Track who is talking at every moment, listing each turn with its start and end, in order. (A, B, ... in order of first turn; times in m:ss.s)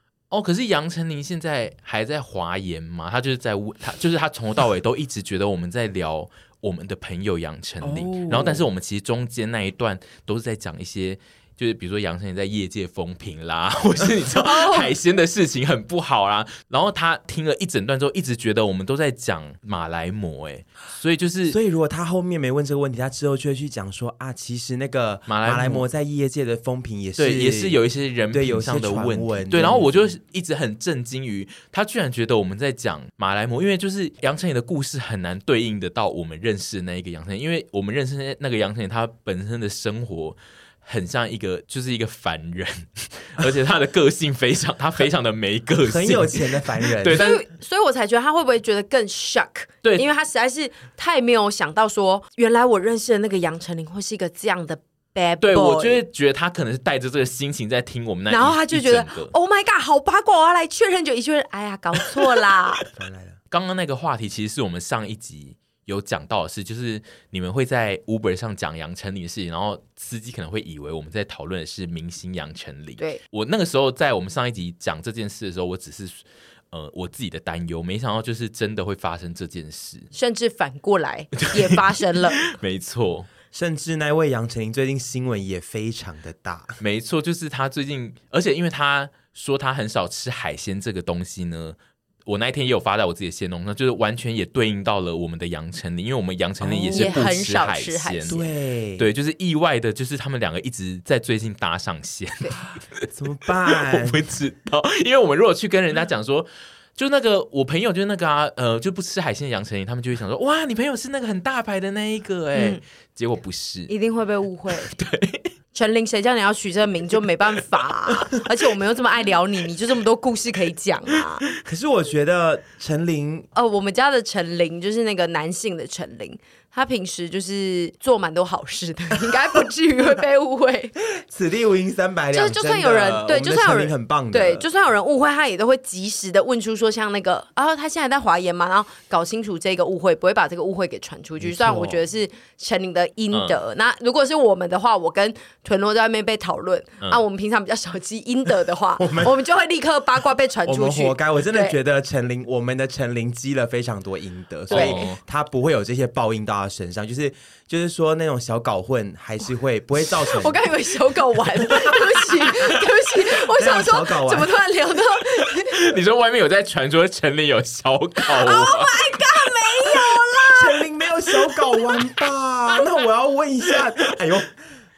0:00.3-0:21.6 A
0:07.8-0:08.6 B
0:14.4-0:14.9 C
0:21.5-0:27.8 B
0:25.3-0:25.8 A
0:27.2-0:47.4 A
0:28.3-0:30.1 B
0:45.8-0:47.2 B
0:47.1-0:56.0 C
0:55.4-0:59.3 A
0:58.3-1:02.9 C
1:03.0-1:03.4 B
1:03.5-1:20.1 A
1:20.1-1:22.6 C
1:21.4-1:21.8 A
1:22.4-1:23.3 A
1:23.5-1:26.8 B
1:26.8-1:38.4 A
1:36.6-1:37.2 B
1:36.9-1:38.5 C
1:38.3-1:39.1 B
1:39.0-1:43.1 A
1:43.1-1:44.2 B
1:43.6-1:53.9 A
1:52.5-1:52.8 C
1:53.9-1:54.9 C
1:54.9-1:55.5 A
1:55.7-2:01.4 C
2:01.6-2:03.5 B
2:03.5-2:10.9 C
2:11.2-2:14.7 B
2:12.3-2:31.8 C
2:21.4-2:22.0 B
2:23.3-2:23.6 A
2:29.0-2:29.3 B
2:30.6-2:40.6 B
2:34.7-2:35.1 C
2:34.7-2:35.2 A
2:40.2-2:45.9 C
2:41.7-2:42.0 B
2:43.5-2:44.5 B
2:45.6-2:49.1 A
2:48.2-2:50.8 C
2:50.5-2:54.5 B